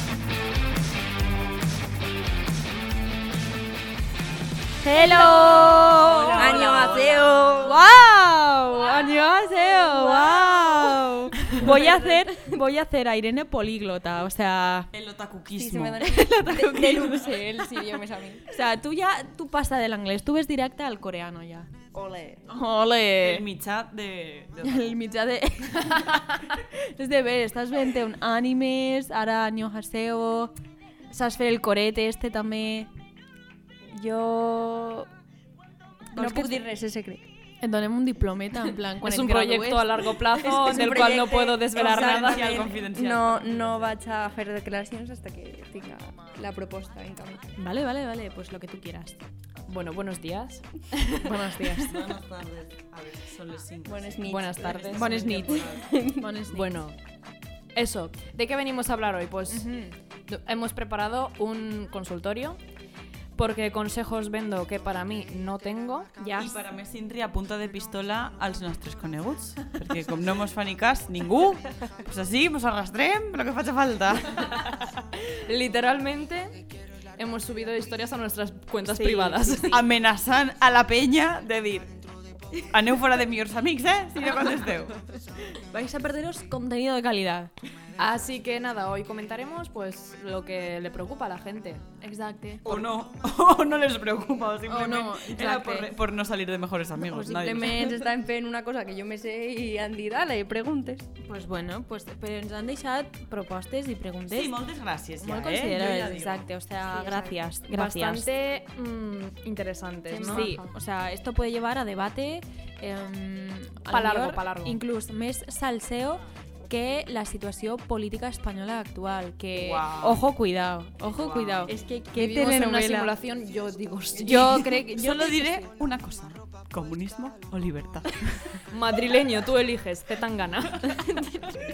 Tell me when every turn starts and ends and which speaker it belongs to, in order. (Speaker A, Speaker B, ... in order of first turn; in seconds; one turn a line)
Speaker A: 4.8-6.9
Speaker B: 4.8-7.8
Speaker C: 5.9-7.5
Speaker A: 7.6-14.9
Speaker B: 9.8-12.3
Speaker C: 14.9-17.3
Speaker B: 15.5-18.6
Speaker A: 16.0-21.7
Speaker B: 21.9-22.4
Speaker A: 22.5-23.5
Speaker C: 23.2-24.9
Speaker A: 24.6-30.5
Speaker A: 31.1-32.9
Speaker B: 33.9-35.1
Speaker B: 36.1-37.3
Speaker A: 36.1-36.6
Speaker A: 37.6-41.0
Speaker D: 39.0-42.7
Speaker B: 40.4-47.5
Speaker C: 41.7-43.7
Speaker A: 47.6-49.2
Speaker D: 49.7-51.9
Speaker A: 51.2-52.0
Speaker C: 51.8-55.9
Speaker B: 53.8-56.2
Speaker D: 54.2-55.3
Speaker A: 54.9-56.7
Speaker D: 56.5-57.0
Speaker D: 57.7-59.7
Speaker A: 59.5-59.9
Speaker D: 60.3-62.6
Speaker D: 63.4-66.1
Speaker A: 66.2-66.5
Speaker C: 66.3-74.9
Speaker D: 75.3-76.5
Speaker D: 77.2-79.8
Speaker A: 78.9-79.8
Speaker C: 79.7-82.0
Speaker C: 82.6-84.9
Speaker A: 85.1-87.5
Speaker D: 88.0-91.8
Speaker A: 92.0-92.7
Speaker C: 92.6-98.0
Speaker A: 94.7-95.9
Speaker B: 97.0-101.1
Speaker A: 101.2-104.5
Speaker C: 104.3-106.5
Speaker A: 105.2-108.3
Speaker B: 106.8-107.3
Speaker D: 107.7-110.6
Speaker B: 110.1-110.7
Speaker A: 110.2-121.7
Speaker D: 113.9-114.8
Speaker C: 119.5-120.2
Speaker C: 121.1-121.7
Speaker B: 121.7-123.1
Speaker D: 122.1-124.8
Speaker B: 124.2-124.9
Speaker A: 124.2-125.7
Speaker C: 124.8-128.6
Speaker D: 128.7-131.3